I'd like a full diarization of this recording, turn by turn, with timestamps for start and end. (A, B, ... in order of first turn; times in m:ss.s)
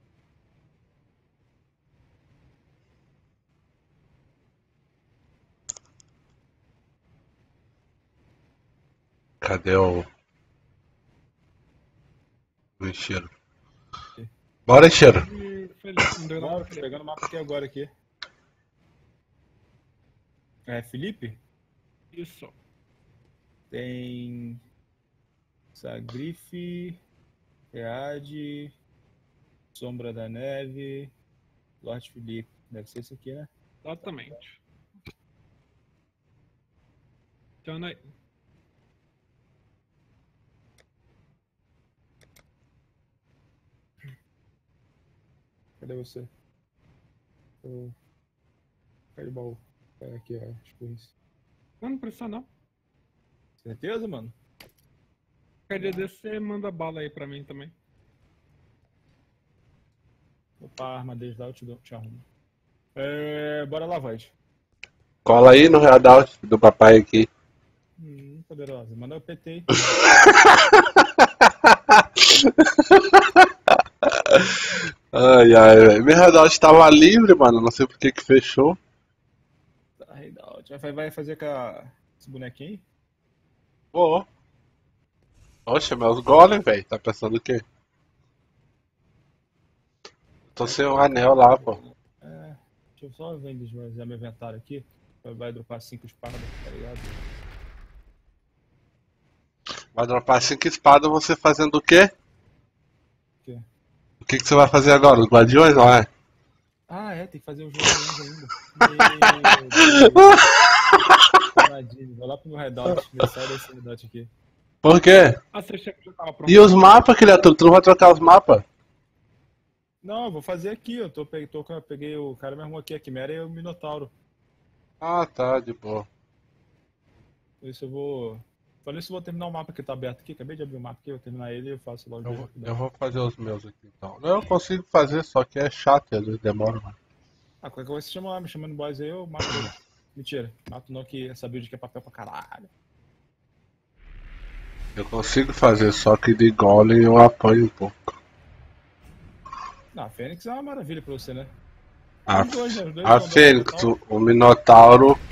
0:09.4-0:10.1 A
0:12.8-0:13.3 A
0:14.7-0:15.2 A
0:15.1-0:16.9 B
0:16.4-0:17.9 C
0:20.7-0:21.4 C
0:22.1-0:22.5 B
0:23.7-0:24.6 C
0:25.7-0:27.0 C
0:27.7-0:28.7 C
0:29.7-0:31.1 C
0:31.8-0:33.5 C
0:33.8-0:34.6 B
0:37.6-0:38.1 B
0:45.8-0:46.3 C
0:47.6-0:47.9 C
0:49.2-0:51.1 C
0:51.8-0:52.5 B
0:53.6-0:54.3 C
0:55.7-0:57.7 B
0:55.8-0:56.0 C
1:00.6-1:02.2 C
1:02.9-1:04.3 C
1:05.2-1:07.3 A
1:08.0-1:09.7 C
1:09.9-1:13.5 A
1:14.0-1:18.8 A
1:20.0-1:22.8 C
1:23.9-1:24.3 A
1:25.6-1:27.6 A
1:30.6-1:31.8 A
1:30.6-1:37.2 C
1:39.9-1:42.1 A
1:44.2-1:46.1 A
1:46.9-1:50.5 C
1:48.8-1:51.4 A
1:51.6-1:54.3 C
1:54.8-1:55.4 A
1:55.5-1:56.8 B
1:56.5-1:58.6 A
2:00.0-2:04.1 C
2:05.0-2:06.1 A
2:07.6-2:12.7 C
2:12.2-2:17.0 A
2:17.6-2:22.7 C
2:25.0-2:28.1 A
2:29.9-2:31.5 C
2:32.3-2:35.2 A
2:32.3-2:33.9 C